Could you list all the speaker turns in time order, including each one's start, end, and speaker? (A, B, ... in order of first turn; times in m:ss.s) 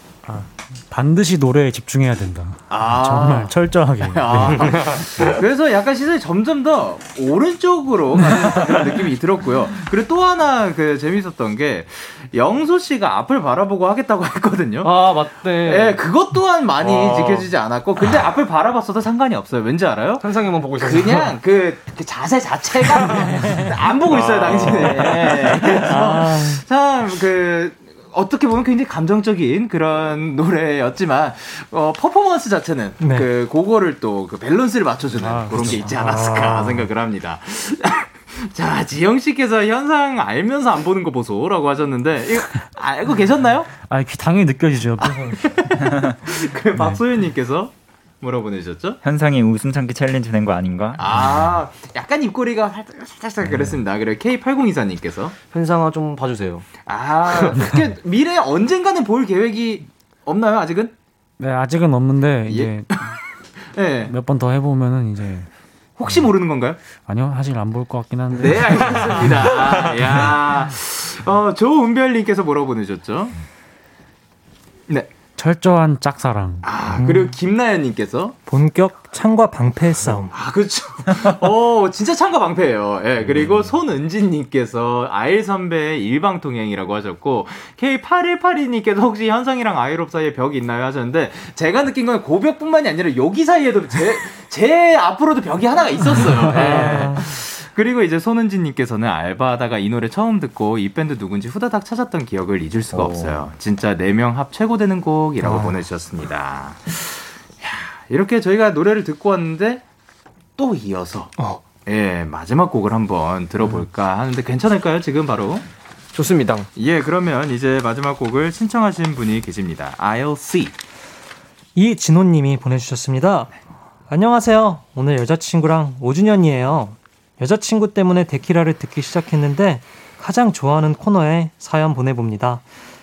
0:00.3-0:04.8 A
0:02.7-0:43.7 B
0:04.4-0:05.3 C
0:14.8-0:16.0 C
0:16.8-0:17.5 C
0:20.2-0:21.4 C
0:22.9-0:25.8 C
0:25.6-0:26.6 D
0:33.0-0:33.3 D
0:35.2-0:36.9 A
0:43.8-0:45.4 A
0:45.0-0:49.0 B
0:49.0-0:51.1 E
0:51.0-0:55.4 B
0:55.5-0:56.7 C
0:56.9-1:00.9 B
1:01.4-1:03.1 A
1:02.5-1:02.7 B
1:03.8-1:04.1 B
1:04.0-1:05.5 A
1:06.0-1:06.8 B
1:07.1-1:10.2 A
1:08.3-1:13.4 B
1:15.4-1:16.7 A
1:16.6-1:18.4 B
1:17.0-1:17.3 D
1:18.5-1:20.3 D
1:20.3-1:49.8 B
1:36.6-1:37.2 D
1:36.6-1:37.1 A
1:42.9-1:43.4 C
1:45.4-1:45.8 D
1:50.6-1:55.7 B
1:56.1-1:56.7 C
1:56.8-2:00.8 B
2:01.8-2:03.5 D
2:04.1-2:12.6 D